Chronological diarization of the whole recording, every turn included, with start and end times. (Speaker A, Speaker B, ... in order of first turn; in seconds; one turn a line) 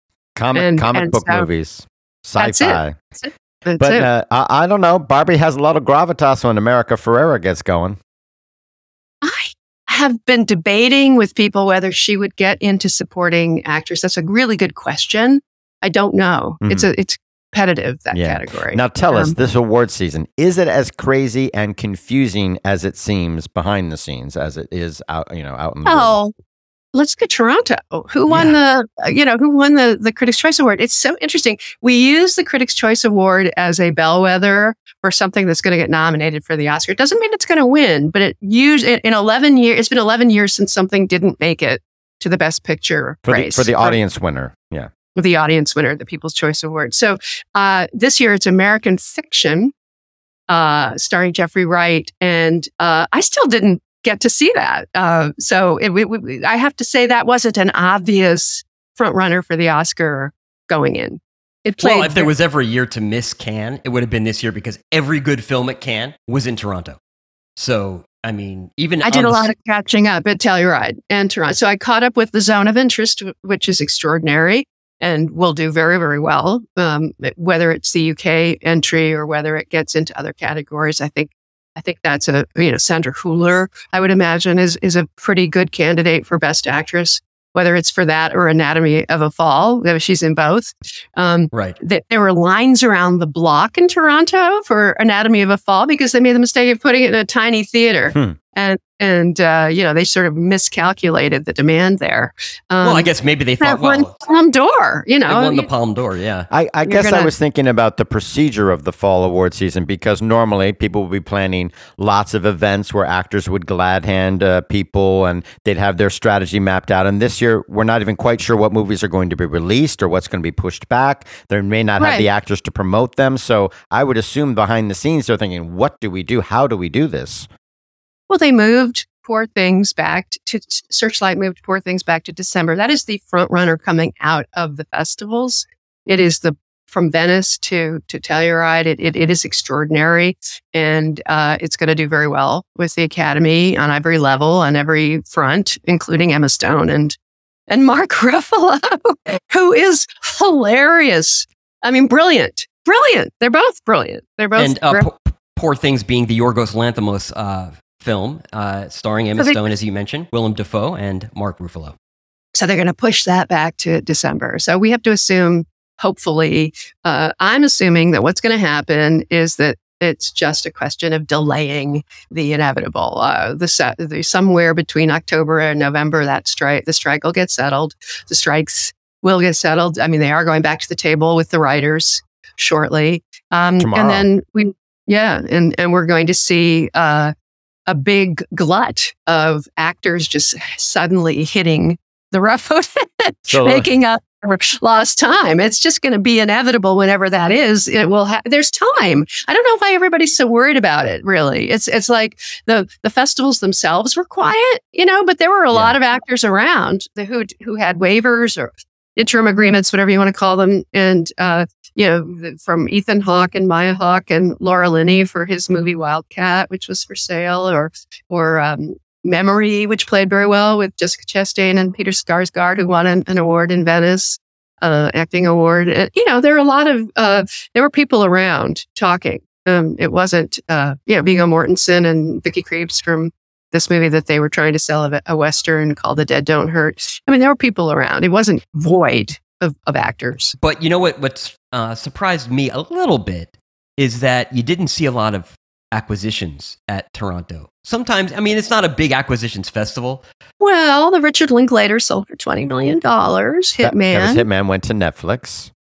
Speaker A: 0.3-3.0
Speaker B: 0.5-1.5
Speaker B: 2.4-4.1
Speaker A: 3.8-8.0
Speaker B: 9.2-19.4
Speaker A: 16.6-16.9
Speaker A: 18.1-26.1
Speaker B: 25.8-26.3
Speaker B: 26.9-44.0
Speaker C: 28.3-28.6
Speaker A: 43.3-44.9
Speaker B: 45.1-49.7
Speaker B: 50.5-62.3
Speaker C: 61.8-67.0
Speaker C: 67.6-69.5
Speaker B: 69.0-103.1
Speaker C: 91.5-91.8
Speaker C: 102.8-104.1
Speaker B: 103.6-105.7
Speaker C: 105.2-106.5
Speaker A: 106.5-127.5
Speaker B: 106.8-107.3
Speaker B: 122.0-122.3
Speaker B: 128.3-147.2
Speaker B: 147.7-155.1
Speaker C: 154.6-161.9
Speaker B: 162.5-187.3
Speaker A: 183.8-184.2
Speaker B: 187.9-240.6
Speaker A: 193.5-193.9
Speaker C: 240.6-250.2
Speaker B: 250.6-254.4
Speaker A: 253.8-255.7